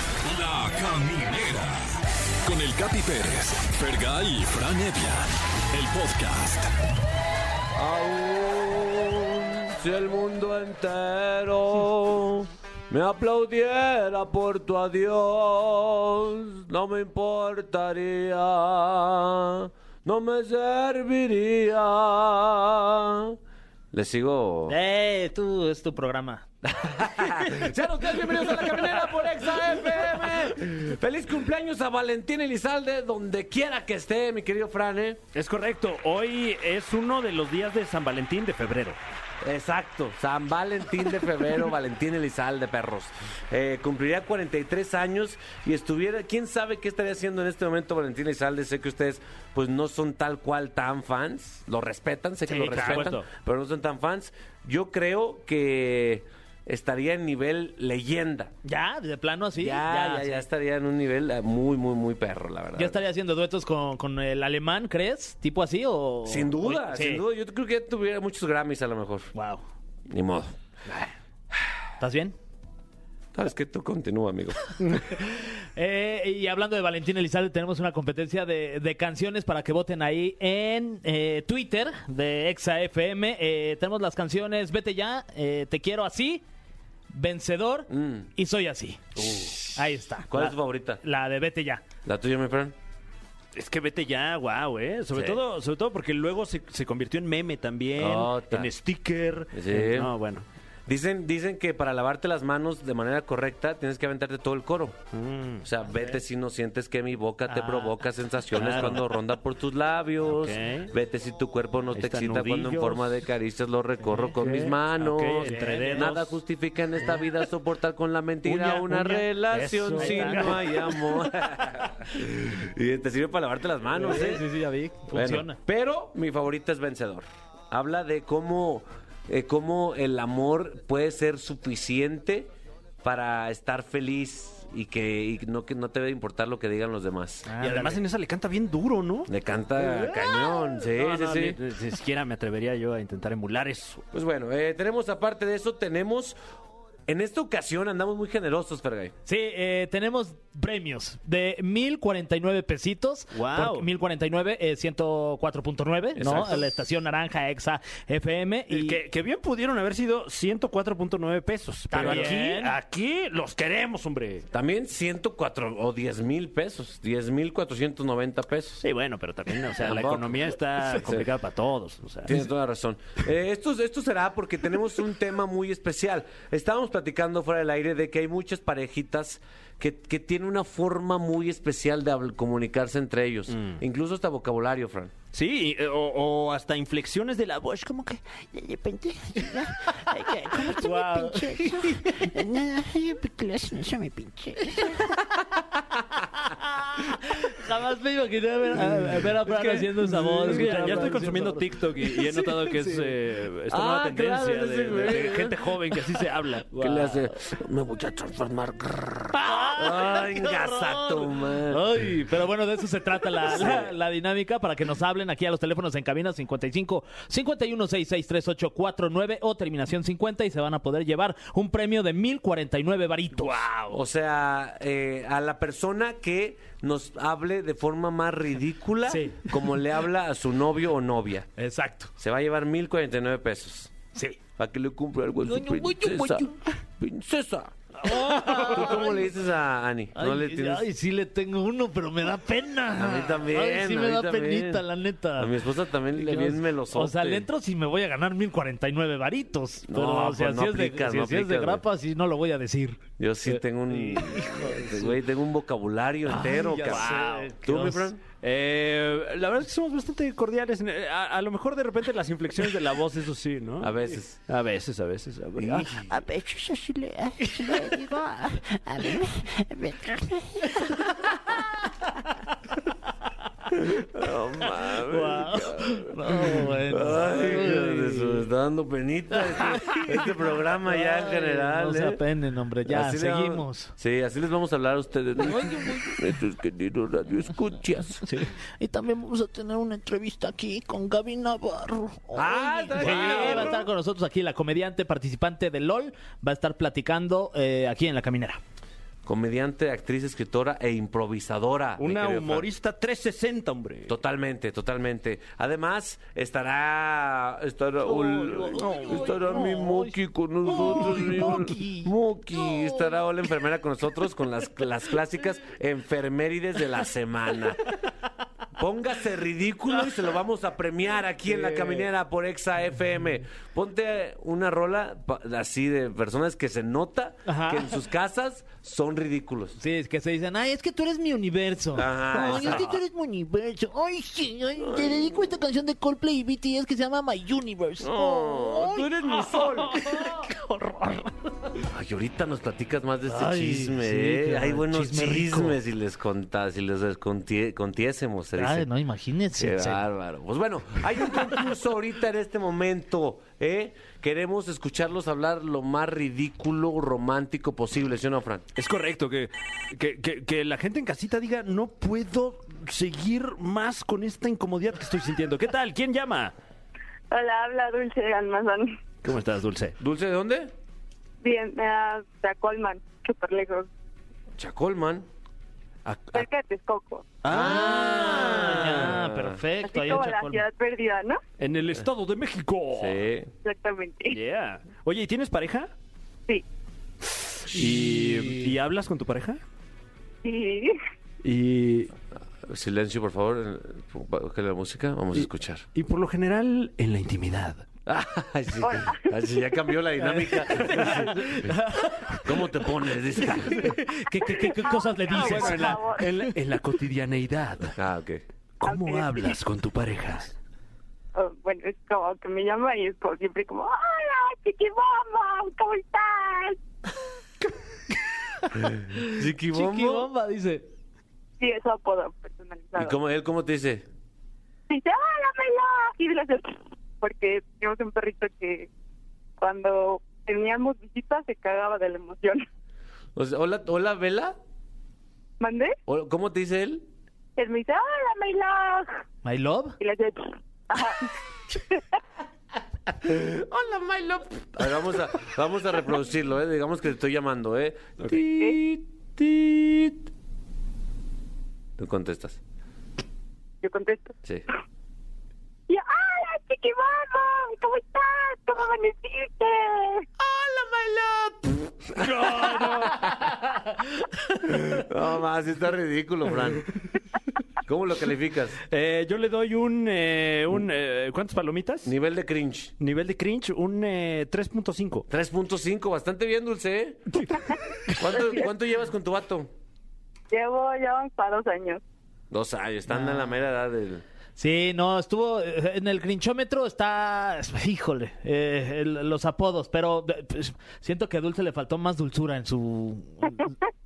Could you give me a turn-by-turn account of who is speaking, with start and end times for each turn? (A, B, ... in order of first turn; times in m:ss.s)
0:00.2-0:01.8 A
0:02.4-0:06.7 A
0:07.8-0:23.4 B
0:23.9-0:24.8 B
0:24.7-0:26.4 C
0:26.6-0:35.2 B
0:35.3-0:39.0 D
0:39.4-0:58.5 B
0:52.5-0:53.2 C
0:52.6-0:53.3 D
0:58.6-1:00.4 C
0:59.6-1:03.0 B
1:02.8-1:07.2 C
1:06.3-1:09.3 B
1:09.4-1:09.6 C
1:10.1-1:10.5 B
1:12.0-1:12.4 C
1:13.3-1:14.8 B
1:15.3-1:26.4 C
1:27.1-1:29.1 C
1:27.9-1:28.3 B
1:29.2-1:29.7 B
1:29.7-1:31.9 C
1:30.3-1:31.0 B
1:32.0-1:32.8 B
1:33.6-1:40.5 D
1:35.1-1:35.4 B
1:38.0-1:38.7 B
1:39.5-1:40.1 B
1:40.9-1:45.0 B
1:45.1-1:45.7 D
1:45.6-2:04.5 B
1:47.5-1:47.9 C
1:48.5-1:49.0 D
1:50.3-1:50.9 D
1:51.9-1:53.2 D
1:54.2-1:56.4 D
1:55.4-1:56.1 C
1:58.4-2:00.8 D
1:59.9-2:00.8 C
2:04.0-2:05.6 C
2:05.1-2:12.5 B
2:13.0-2:17.5 B
2:17.5-2:18.0 C
2:17.6-2:19.3 D
2:19.3-2:21.6 B
2:19.9-2:24.0 D
2:24.1-2:26.4 B
2:27.1-2:29.1 B
2:29.3-2:39.0 C
2:33.3-2:33.9 D
2:36.2-2:36.7 B
2:38.7-2:44.5 D
2:41.9-2:42.8 C
2:42.0-2:42.3 B
2:44.5-2:48.8 B
2:48.8-2:52.4 D
2:49.7-2:51.3 B
2:52.3-3:05.1 B
3:03.5-3:03.8 D
3:05.3-3:08.1 D
3:08.3-3:15.1 E
3:10.8-3:12.1 C
3:16.8-3:23.1 C
3:18.7-3:26.8 D
3:23.7-3:26.0 B
3:26.7-3:27.2 C
3:26.7-3:31.8 B
3:29.4-3:44.0 C
3:33.5-3:33.9 B
3:43.9-3:51.5 B
3:49.1-3:49.5 C
3:51.6-3:52.1 C
3:52.2-3:53.9 B
3:54.6-3:56.5 B
3:55.4-3:56.6 C
3:57.0-4:00.9 B
3:58.0-3:59.3 C
4:00.2-4:05.5 C
4:03.0-4:04.8 B
4:05.4-4:07.5 B
4:06.2-4:13.0 C
4:09.9-4:11.8 B
4:13.2-4:18.2 B
4:14.1-4:15.1 C
4:16.3-4:18.1 C
4:16.8-4:17.5 D
4:18.3-4:23.9 D
4:23.8-4:24.4 B
4:24.5-4:26.1 D
4:25.6-4:26.0 B
4:26.1-4:30.9 E
4:33.8-4:42.2 B
4:35.1-4:38.4 C
4:39.7-4:40.3 C
4:40.9-4:43.9 C
4:42.9-4:48.3 B
4:45.5-4:46.2 C
4:48.3-4:58.6 C
4:52.4-4:53.9 B
4:53.0-4:53.7 D
4:59.2-5:02.7 B
5:02.0-5:04.1 D
5:04.1-5:17.9 B
5:08.1-5:13.1 C
5:10.7-5:11.9 D
5:18.8-5:29.8 B
5:21.5-5:22.1 D
5:27.5-5:27.9 C
5:29.8-5:41.3 C
5:32.0-5:33.0 B
5:38.0-5:40.1 B
5:41.9-5:48.9 B
5:43.3-5:45.8 C
5:48.6-5:50.0 C
5:49.6-5:58.7 B
5:58.8-6:06.6 D
6:07.3-6:09.0 F
6:09.2-6:10.0 D
6:10.0-6:10.7 B
6:11.4-6:13.9 F
6:14.6-6:15.3 B
6:16.0-6:16.4 D
6:16.3-6:17.4 F
6:17.4-6:19.1 D
6:17.5-6:19.6 B
6:17.5-6:20.6 C
6:19.8-6:21.4 F
6:21.6-6:23.2 D
6:23.0-6:23.5 B
6:23.6-6:24.4 F
6:24.3-6:25.9 D
6:27.3-6:29.6 D
6:30.4-6:31.0 F
6:31.4-6:32.1 D
6:32.7-6:35.9 B
6:35.4-6:37.9 D
6:38.1-6:41.7 B
6:38.8-6:39.4 F
6:40.7-6:42.3 D
6:42.5-6:43.9 B
6:43.7-6:46.3 C
6:44.6-6:46.3 F
6:45.4-6:47.9 D
6:48.0-6:48.4 B
6:48.8-6:50.6 D
6:48.8-6:49.6 F
6:51.4-6:56.8 F
6:58.6-7:00.9 C
6:59.2-7:00.3 B
7:01.6-7:03.2 F
7:03.0-7:04.0 B
7:04.9-7:08.9 F
7:09.6-7:12.7 F
7:13.4-7:14.6 B
7:15.6-7:16.0 F
7:16.1-7:17.0 B
7:17.6-7:19.2 F
7:19.4-7:20.0 C
7:20.0-7:22.0 F
7:23.2-7:30.2 B
7:32.0-7:32.6 B
7:33.8-7:34.4 F
7:35.9-7:40.3 F
7:40.4-7:42.9 B
7:42.2-7:43.3 D
7:43.1-7:43.5 C
7:44.9-7:46.9 B
7:47.9-7:48.8 B
7:48.9-7:52.1 D
7:52.1-7:52.9 B
7:53.0-7:55.3 D
7:55.3-7:57.4 B
7:58.2-7:59.7 B
8:00.5-8:02.0 F
8:02.5-8:04.2 B
8:03.1-8:03.4 C
8:04.6-8:13.7 C